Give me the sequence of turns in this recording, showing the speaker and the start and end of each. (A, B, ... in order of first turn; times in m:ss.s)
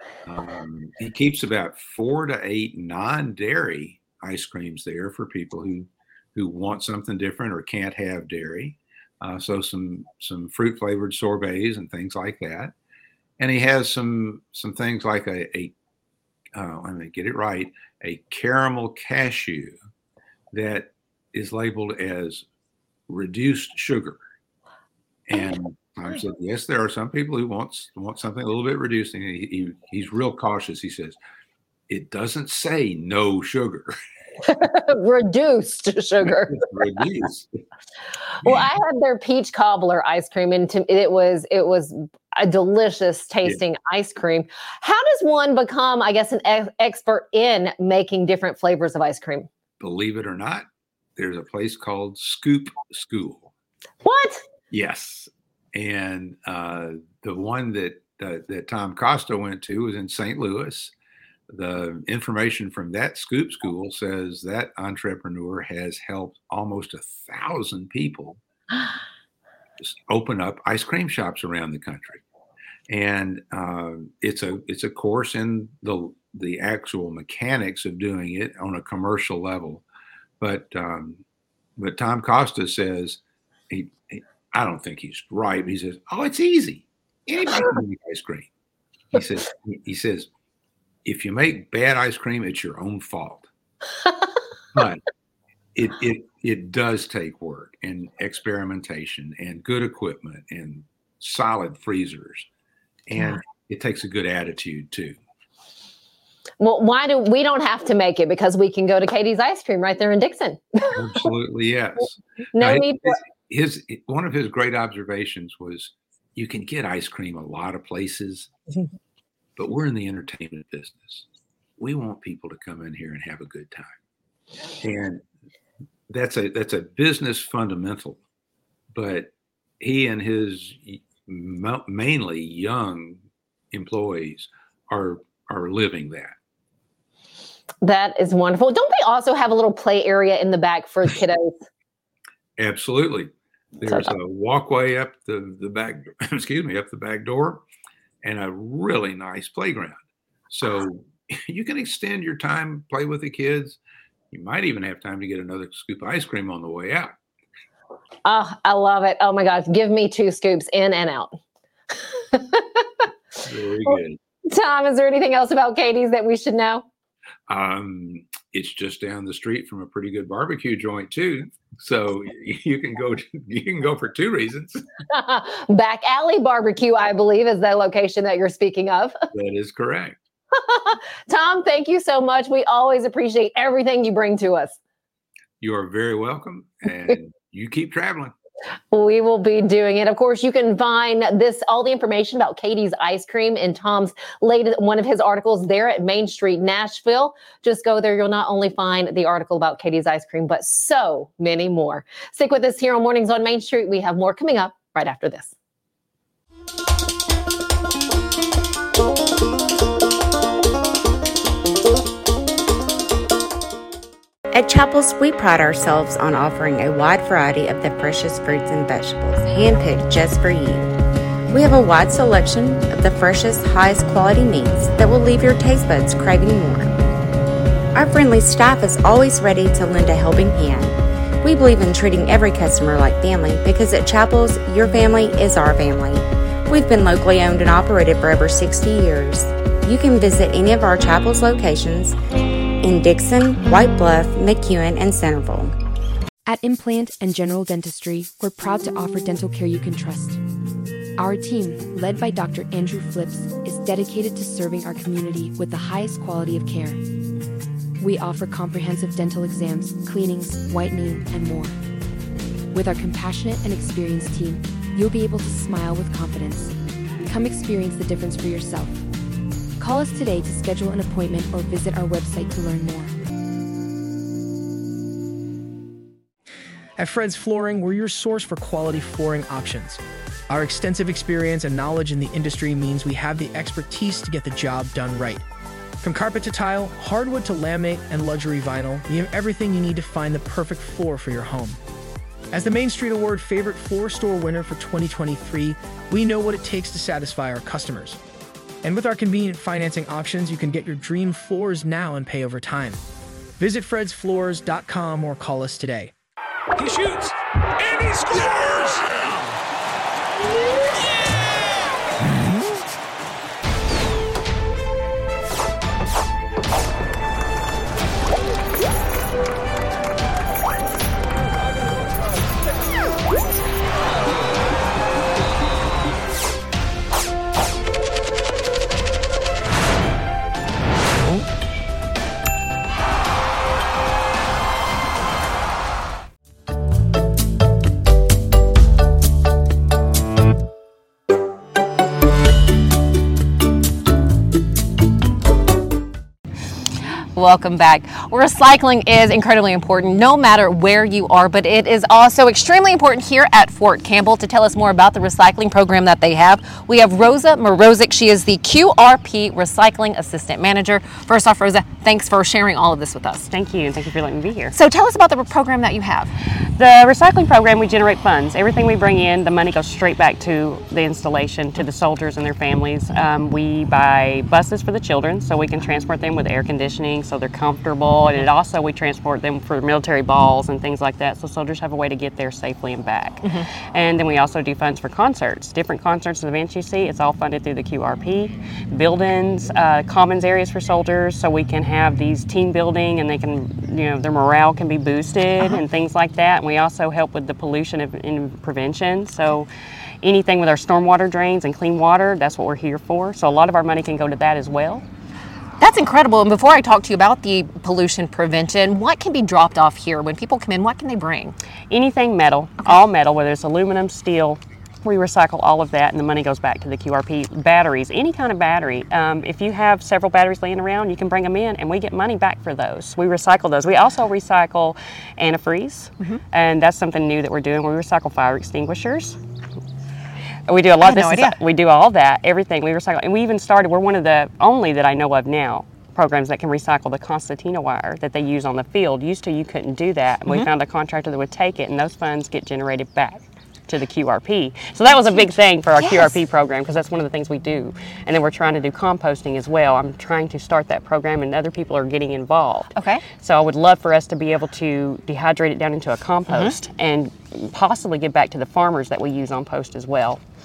0:00.2-0:12.7 A
0:13.4-0:15.7 A
0:16.5-0:19.8 A
0:20.5-0:22.4 A
0:23.1-0:24.2 A
0:25.3-0:31.2 A
0:31.9-0:33.9 A
0:34.5-0:36.6 B
0:36.3-0:37.5 A
0:38.4-0:49.5 B
0:38.4-0:38.7 A
0:49.8-0:53.5 A
0:54.0-0:54.4 B
0:54.7-1:00.9 A
1:01.5-1:08.4 A
1:09.8-1:12.2 A
1:12.9-1:19.8 A
1:20.4-1:21.2 A
1:21.8-1:28.5 A
1:29.1-1:30.3 A
1:31.0-1:33.5 A
1:34.7-1:35.0 A
1:35.7-1:42.5 A
1:43.1-1:45.2 A
1:46.6-1:50.9 B
1:50.9-1:58.5 A
1:52.5-1:53.2 B
1:59.6-2:01.2 A
2:01.8-2:03.9 A
2:04.8-2:05.2 A
2:06.1-2:08.2 A
2:08.9-2:13.2 A
2:13.7-2:16.3 A
2:17.8-2:21.6 B
2:22.6-2:27.6 A
2:23.9-2:24.1 B
2:28.2-2:30.0 A
2:30.5-2:33.8 A
2:34.3-2:37.1 A
2:38.2-2:41.4 B
2:42.3-2:42.8 B
2:43.4-2:44.2 A
2:43.8-2:46.8 B
2:47.5-2:54.9 A
2:55.1-2:59.2 B
2:59.3-3:00.2 A
3:00.6-3:04.8 B
3:05.6-3:08.3 A
3:08.9-3:25.5 B
3:34.5-3:40.9 C
3:41.5-3:47.0 C
3:47.9-4:02.2 C
4:02.8-4:05.7 C
4:06.4-4:10.4 D
4:11.2-4:17.0 D
4:18.0-4:21.8 D
4:22.7-4:26.7 D
4:27.2-4:29.0 D
4:29.8-4:33.1 D
4:37.0-4:45.4 E
4:46.0-4:51.8 E
4:52.5-4:58.2 E
4:58.8-5:03.0 E
5:03.6-5:06.1 E
5:06.8-5:09.6 F
5:47.3-6:03.5 B
6:03.5-6:04.7 G
6:04.7-6:06.3 B
6:06.8-6:39.7 G
6:23.4-6:23.7 B
6:40.2-6:45.0 G
6:45.8-6:51.6 B
6:51.9-7:09.4 G
7:10.7-7:40.4 G
7:11.0-7:11.6 B
7:25.2-7:26.4 B
7:32.9-7:33.2 B
7:36.5-7:36.7 B